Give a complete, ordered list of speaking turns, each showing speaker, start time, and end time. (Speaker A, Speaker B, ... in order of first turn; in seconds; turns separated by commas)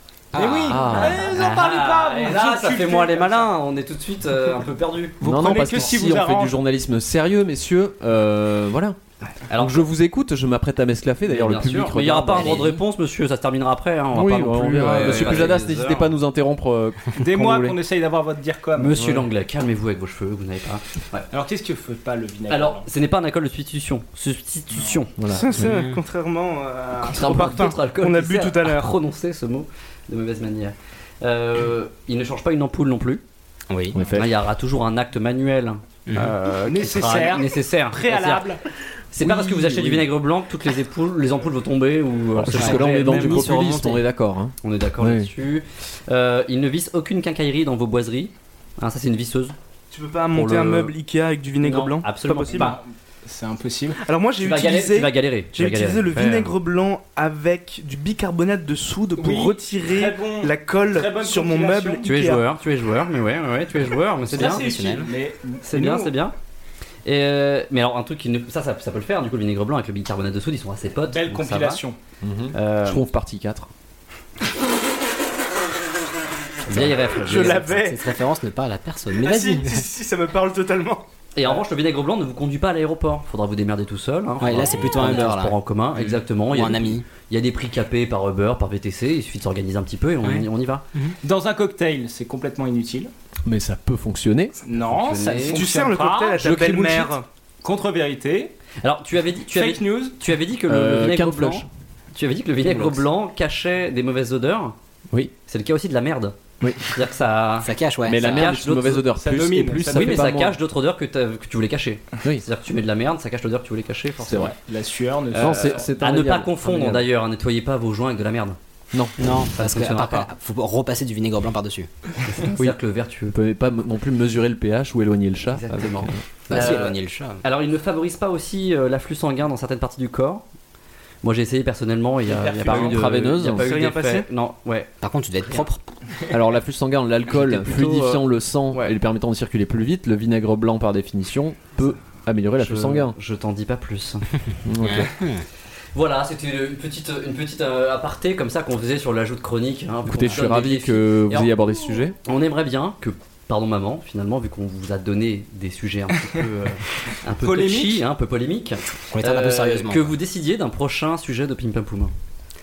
Speaker A: 0.3-3.5, Speaker B: 0.4-5.9, Speaker C: 0.7-1.2, Speaker A: 5.2-6.6, Speaker C: 5.2-9.0, Speaker B: 9.3-9.9, Speaker C: 9.6-12.7, Speaker B: 11.3-16.1, Speaker D: 12.3-12.8, Speaker C: 14.1-17.8, Speaker A: 17.2-19.0, Speaker B: 18.8-21.3, Speaker C: 19.0-19.3, Speaker A: 21.3-22.9, Speaker B: 22.5-25.2, Speaker A: 24.7-25.0, Speaker C: 25.2-25.8, Speaker E: 25.4-28.9, Speaker D: 25.5-26.0, Speaker B: 27.0-33.2, Speaker D: 33.7-34.0, Speaker C: 33.9-34.3, Speaker B: 34.1-38.6, Speaker D: 36.1-36.4, Speaker A: 36.7-38.6, Speaker B: 39.1-43.5, Speaker C: 39.2-40.1, Speaker C: 42.4-45.3, Speaker D: 42.5-44.0, Speaker B: 44.6-49.5, Speaker E: 49.9-52.8, Speaker B: 50.3-50.9, Speaker B: 51.6-52.8, Speaker A: 52.5-54.0, Speaker E: 54.0-62.4, Speaker B: 54.4-56.5, Speaker A: 59.2-62.1, Speaker B: 62.0-64.7, Speaker D: 64.3-65.1, Speaker A: 64.3-66.1, Speaker B: 65.6-66.3, Speaker B: 67.0-71.8, Speaker A: 71.1-72.0, Speaker C: 72.2-73.7, Speaker B: 72.5-73.0, Speaker B: 76.7-77.9, Speaker D: 76.8-79.9, Speaker E: 77.2-78.1, Speaker E: 79.2-81.0, Speaker B: 81.3-90.8, Speaker D: 84.4-85.6, Speaker D: 86.5-87.1, Speaker D: 90.2-91.2, Speaker A: 91.2-93.1, Speaker C: 93.5-94.6, Speaker A: 94.7-98.5, Speaker B: 94.8-95.6, Speaker E: 95.5-97.2, Speaker B: 98.8-104.8, Speaker A: 99.5-100.2, Speaker C: 100.7-101.7, Speaker B: 105.5-109.0, Speaker C: 106.6-106.9, Speaker D: 107.6-108.5, Speaker C: 108.1-110.6, Speaker A: 108.7-110.3, Speaker B: 109.9-114.5, Speaker C: 114.2-114.5, Speaker A: 114.4-115.9, Speaker C: 115.3-117.0, Speaker B: 115.3-118.6, Speaker D: 119.2-121.9, Speaker B: 119.2-120.3, Speaker B: 122.3-123.3, Speaker C: 123.3-126.7, Speaker B: 125.5-130.4, Speaker D: 126.5-127.4, Speaker B: 131.2-135.7, Speaker A: 132.2-133.1, Speaker C: 132.7-133.7, Speaker E: 133.6-134.3, Speaker D: 135.0-135.8, Speaker C: 136.3-143.2, Speaker B: 137.3-138.2, Speaker B: 142.6-144.2, Speaker C: 144.7-145.1, Speaker D: 144.8-145.4, Speaker B: 145.9-151.5, Speaker C: 150.1-152.2, Speaker B: 152.2-162.1, Speaker A: 157.4-158.0, Speaker D: 159.1-160.2